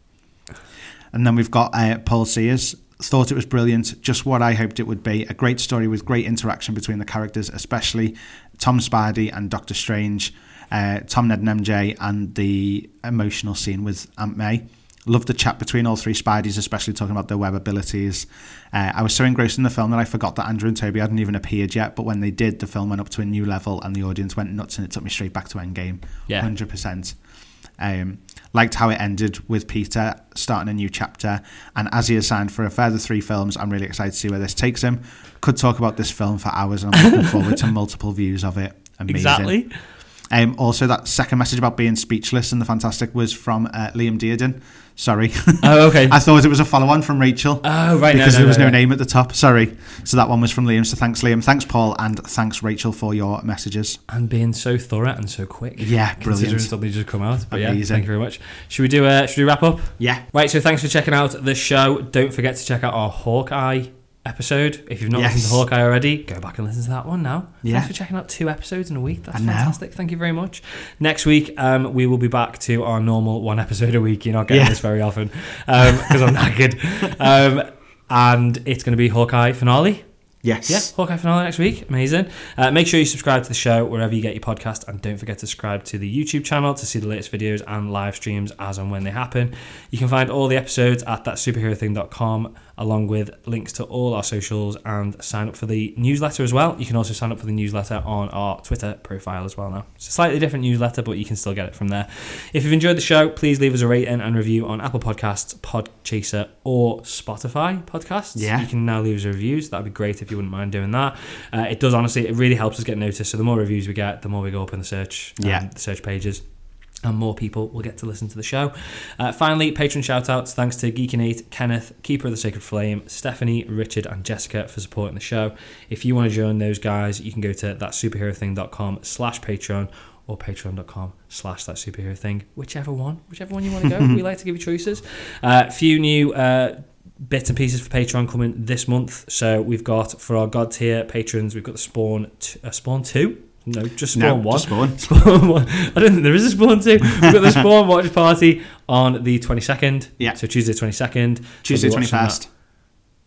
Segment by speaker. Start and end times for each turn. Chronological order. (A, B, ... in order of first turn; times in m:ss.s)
0:01.1-0:27.2 A
0:27.8-0:39.6 A
0:37.0-0:37.6 B
0:39.1-0:39.7 B
0:40.3-0:54.0 A
0:45.6-0:46.2 B
0:47.6-0:48.8 B
0:54.1-1:20.0 B
0:55.8-0:56.7 A
0:57.5-0:58.1 A
1:00.0-1:00.2 A
1:05.1-1:05.6 A
1:07.6-1:07.9 A
1:09.3-1:09.8 A
1:14.5-1:14.8 A
1:20.4-1:20.9 A
1:20.6-1:56.4 B
1:48.3-1:48.7 A
1:55.4-1:55.6 A
1:57.0-2:32.4 B
2:13.8-2:14.2 A
2:24.1-2:25.0 A
2:31.6-2:32.5 A